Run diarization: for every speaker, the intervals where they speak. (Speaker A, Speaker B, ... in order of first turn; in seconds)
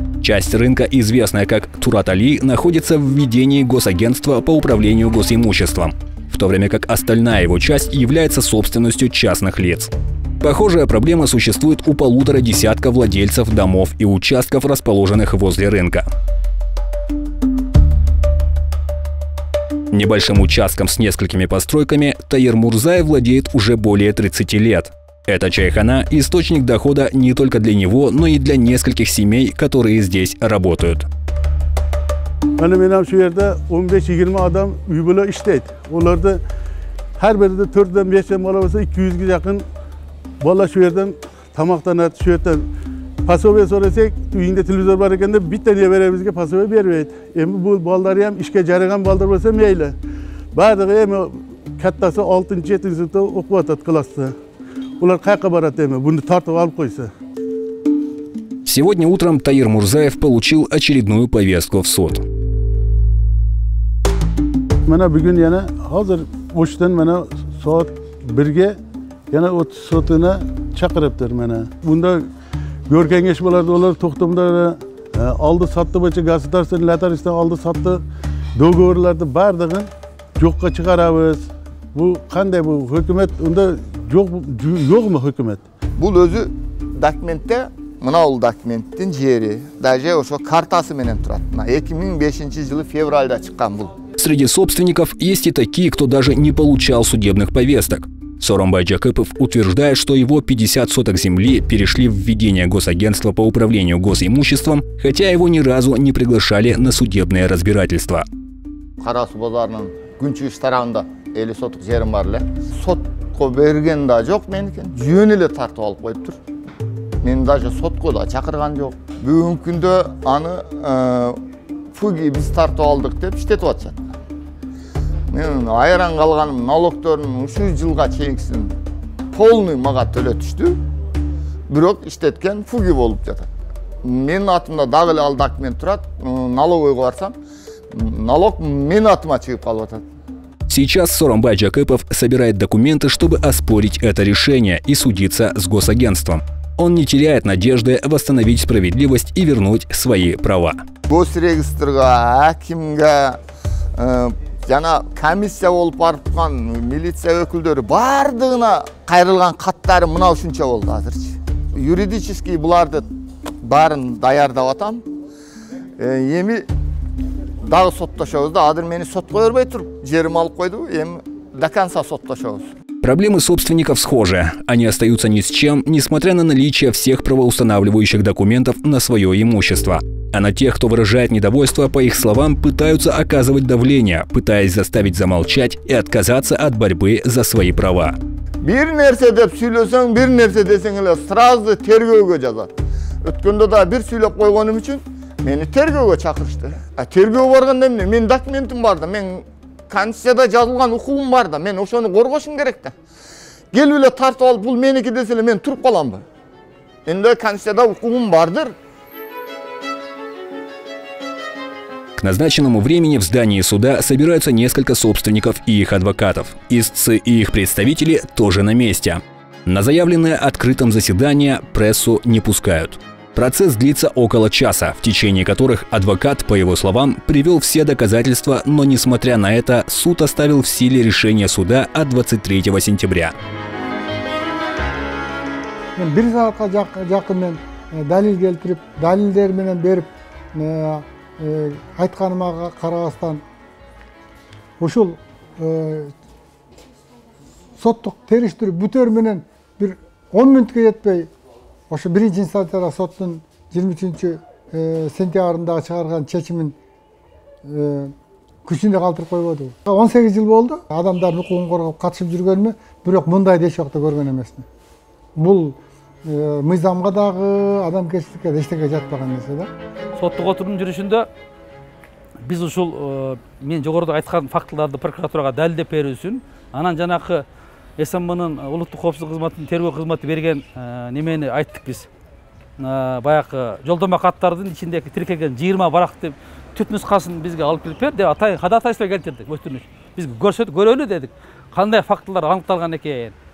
Speaker A: 0.2-16.1, 19.9-31.1, 58.7-62.2, 94.2-108.2, 140.7-150.8, 173.0-188.2, 212.2-233.3
Speaker B: 32.6-36.4, 37.2-39.6, 40.4-42.7, 43.2-50.0, 50.5-54.3, 55.0-57.1, 64.9-68.8, 69.3-72.2, 72.9-78.0, 78.6-85.6
Speaker C: 86.0-93.9, 109.0-116.4, 117.2-121.4, 121.9-124.0, 125.3-128.7, 129.3-130.8, 131.7-133.5, 134.0-137.3, 137.9-140.0, 151.1-153.4, 154.0-163.1, 163.6-165.0, 166.0-166.7, 167.6-172.7, 188.6-192.7, 193.2-202.9, 203.7-206.2, 207.1-208.7
Speaker D: 236.0-243.4, 244.8-246.1, 247.8-251.3, 251.9-256.8, 257.6-258.1, 258.7-264.6, 265.4-269.7
Speaker E: 270.2-271.3, 272.5-277.4, 278.0-282.1, 282.8-293.4